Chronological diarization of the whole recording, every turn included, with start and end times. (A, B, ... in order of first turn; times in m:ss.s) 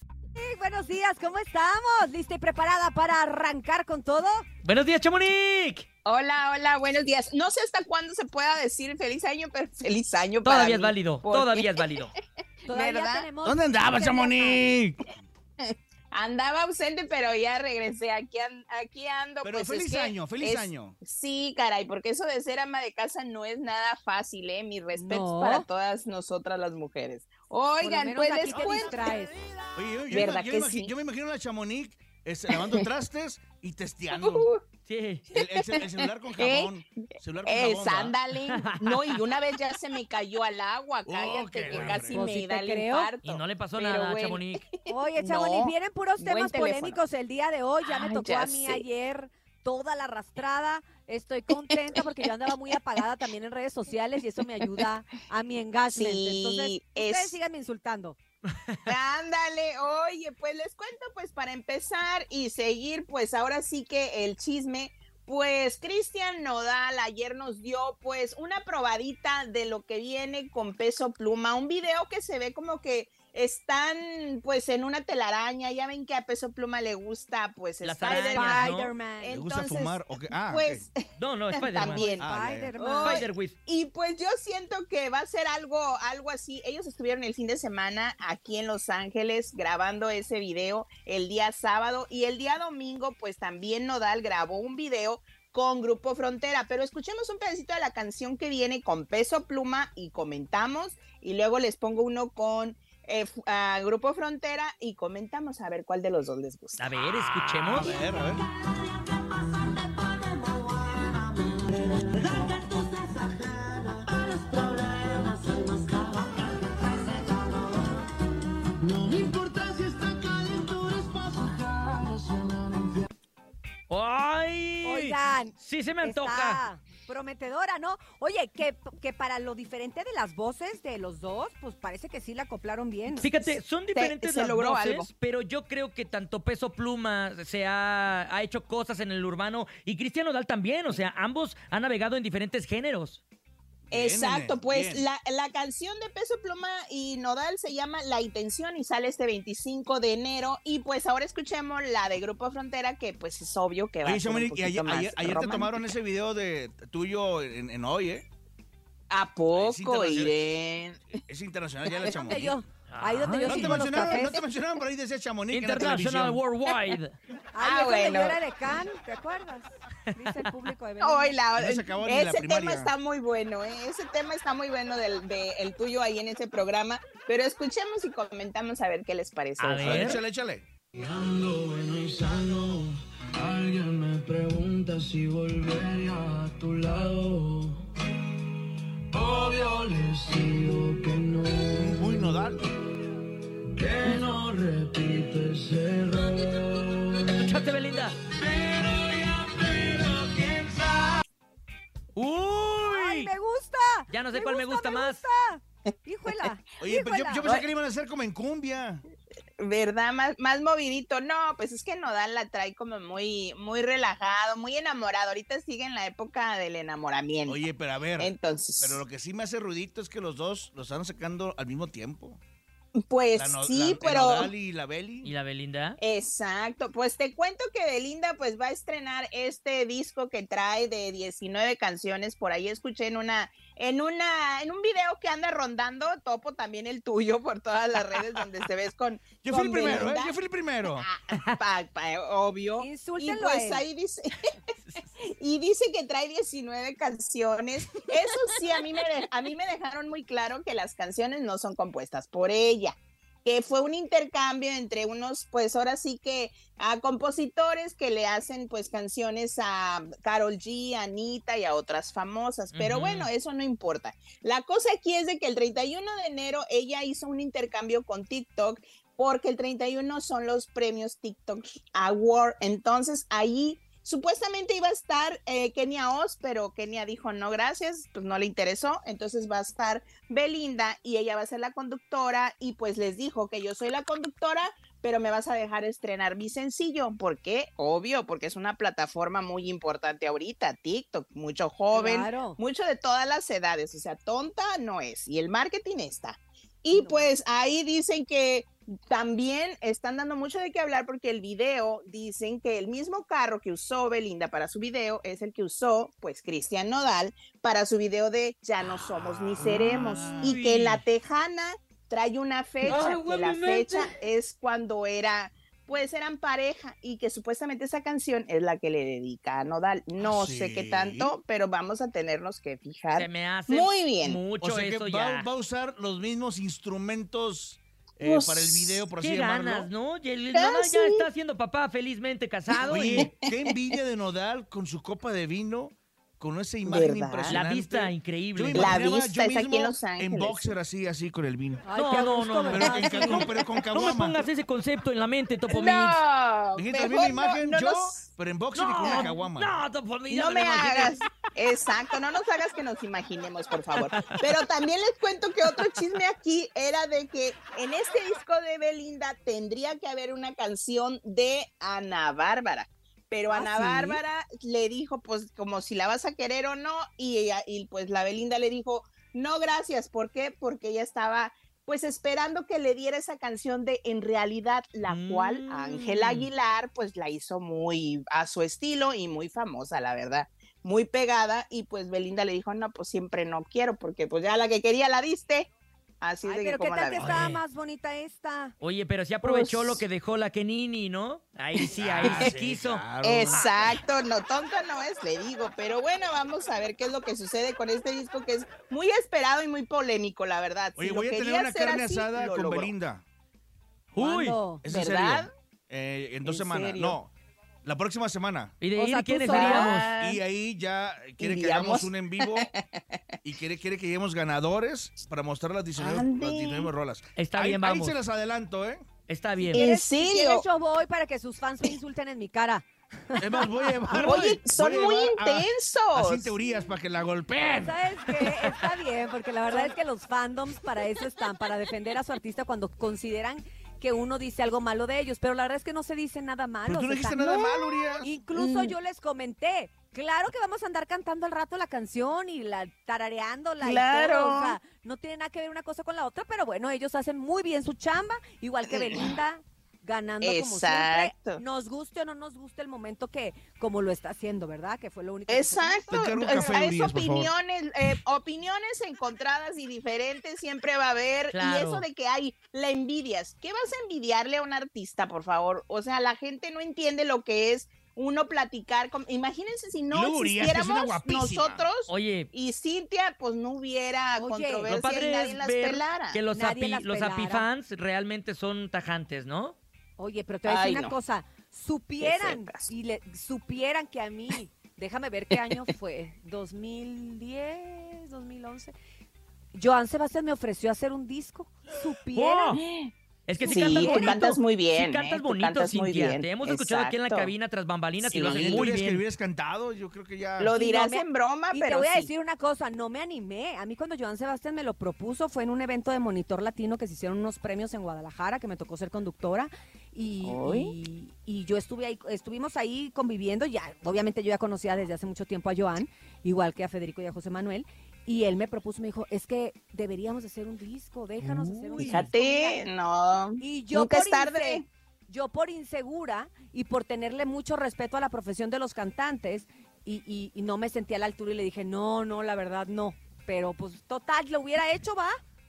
0:00.4-0:04.4 A
0:04.6-0:05.8 B
0:06.0-0:12.0 C
0:10.4-0:12.1 B
0:12.6-0:13.3 C
0:12.7-0:14.7 A
0:13.4-0:15.1 D
0:15.6-0:29.1 C
0:19.4-0:21.0 D
0:25.0-0:25.6 A
0:27.8-0:29.3 A
0:28.5-0:34.5 D
0:30.1-0:30.9 C
0:32.5-0:32.9 C
0:34.1-0:34.6 C
0:34.9-0:35.2 B
0:35.3-0:36.8 C
0:35.3-0:38.2 D
0:37.4-0:47.0 C
0:38.6-0:39.2 B
0:41.0-0:42.2 D
0:41.7-0:42.0 B
0:42.1-0:43.1 A
0:43.2-0:44.6 B
0:44.9-0:58.2 A
0:47.8-0:48.8 C
0:51.6-0:52.1 C
0:55.9-0:57.4 C
0:58.9-1:21.1 C
1:17.8-1:18.9 B
1:18.1-1:19.4 A
1:19.3-1:20.8 D
1:21.2-1:22.1 B
1:21.6-1:46.9 C
1:21.9-1:23.3 A
1:22.2-1:22.7 D
1:23.0-1:23.6 B
1:46.8-1:48.0 B
1:47.7-1:48.4 D
1:50.8-1:57.8 E
1:58.8-2:03.0 E
2:03.9-2:06.6 B
2:04.8-2:13.3 A
2:13.2-2:23.2 B
2:13.4-2:15.1 C
2:23.9-2:25.0 D
2:23.9-2:35.8 C
2:34.0-2:38.2 D
2:39.1-2:41.1 C
2:39.5-2:40.4 D
2:41.3-2:42.6 D
2:41.9-2:42.3 C
2:42.0-2:44.4 A
2:42.9-2:44.1 B
2:43.4-2:46.4 D
2:45.5-2:47.1 B
2:46.7-2:47.0 C
2:47.5-2:51.4 A
2:47.6-2:48.4 C
2:51.0-3:00.2 C
2:51.6-2:52.9 D
2:59.6-3:00.2 B
2:59.8-3:00.7 D
3:00.9-3:07.8 E
3:09.1-3:12.2 E
3:11.8-3:12.7 D
3:13.7-3:17.5 E
3:17.4-3:18.2 B
3:18.3-3:21.2 E
3:22.2-3:23.3 B
3:22.8-3:27.5 A
3:24.1-3:25.2 B
3:26.8-3:29.0 D
3:29.6-3:37.7 C
3:37.5-3:42.4 D
3:38.2-3:39.0 C
3:43.0-3:44.5 C
3:43.3-3:45.3 D
3:45.2-3:46.0 B
3:46.0-4:00.4 C
3:59.4-4:01.1 D
4:00.9-4:04.5 C
4:02.8-4:03.8 A
4:05.2-5:24.4 C
4:22.7-4:23.3 B
4:51.9-4:52.6 A
4:56.9-4:57.3 A
5:08.8-5:10.6 D
5:09.6-5:11.0 B
5:20.2-5:21.3 D
5:23.1-5:25.5 B
5:24.6-5:29.9 D
5:28.2-5:29.0 C
5:29.2-5:33.3 B
5:30.5-5:31.3 C
5:32.7-5:33.4 C
5:32.8-5:41.8 D
5:36.8-5:37.6 C
5:37.5-5:39.0 B
5:38.7-5:40.7 C
5:41.8-5:43.5 A
5:41.9-5:46.2 B
5:42.7-5:44.4 D
5:45.7-5:48.3 C
5:46.8-5:49.8 D
5:48.7-5:51.2 B
5:49.0-5:49.4 C
5:50.3-6:25.7 C
5:53.9-5:54.4 B
6:03.5-6:04.2 A
6:15.0-6:16.5 B
6:26.2-6:27.5 C
6:26.4-6:28.8 A
6:27.2-6:27.6 B
6:28.8-6:33.9 B
6:29.4-6:30.0 C
6:31.8-6:32.5 C
6:32.0-6:33.9 D
6:33.2-6:42.9 C
6:41.0-6:43.2 D
6:44.1-6:44.6 B
6:44.2-6:44.8 A
6:44.8-6:47.3 D
6:44.9-6:45.5 C
6:46.4-6:47.2 C
6:47.8-6:48.8 D
6:48.8-6:50.1 B
6:49.0-6:50.0 A
6:49.5-6:50.4 C
6:50.2-6:52.7 D
6:51.4-6:53.2 C
6:53.4-6:59.0 D
6:56.0-6:56.9 C
6:57.4-6:58.2 B
6:59.3-6:59.8 B
6:59.7-7:00.6 C
6:59.7-7:04.4 A
7:03.4-7:08.7 D
7:04.1-7:06.6 C
7:07.8-7:36.8 A
7:16.9-7:18.3 D
7:18.5-7:19.0 C
7:23.8-7:24.8 C
7:28.9-7:29.3 C
7:30.4-7:31.6 C
7:35.5-7:56.4 C
7:36.1-7:37.5 D
7:41.5-7:42.1 B
7:50.1-7:51.9 D
7:52.1-7:52.5 B
7:54.4-7:54.9 A
7:54.8-7:59.8 B
7:56.5-7:57.7 A
8:00.2-8:08.9 A
8:00.6-8:01.1 C
8:02.2-8:02.9 C
8:09.8-8:12.8 A
8:12.3-8:12.8 B
8:12.7-8:13.1 C
8:13.5-8:19.2 B
8:13.6-8:17.5 C
8:13.7-8:14.4 A
8:18.2-8:18.8 C
8:18.4-8:20.7 D
8:20.6-8:22.3 C
8:20.7-8:42.9 A
8:30.4-8:30.9 C
8:41.4-8:42.3 B
8:42.0-8:44.8 C
8:43.6-8:55.4 A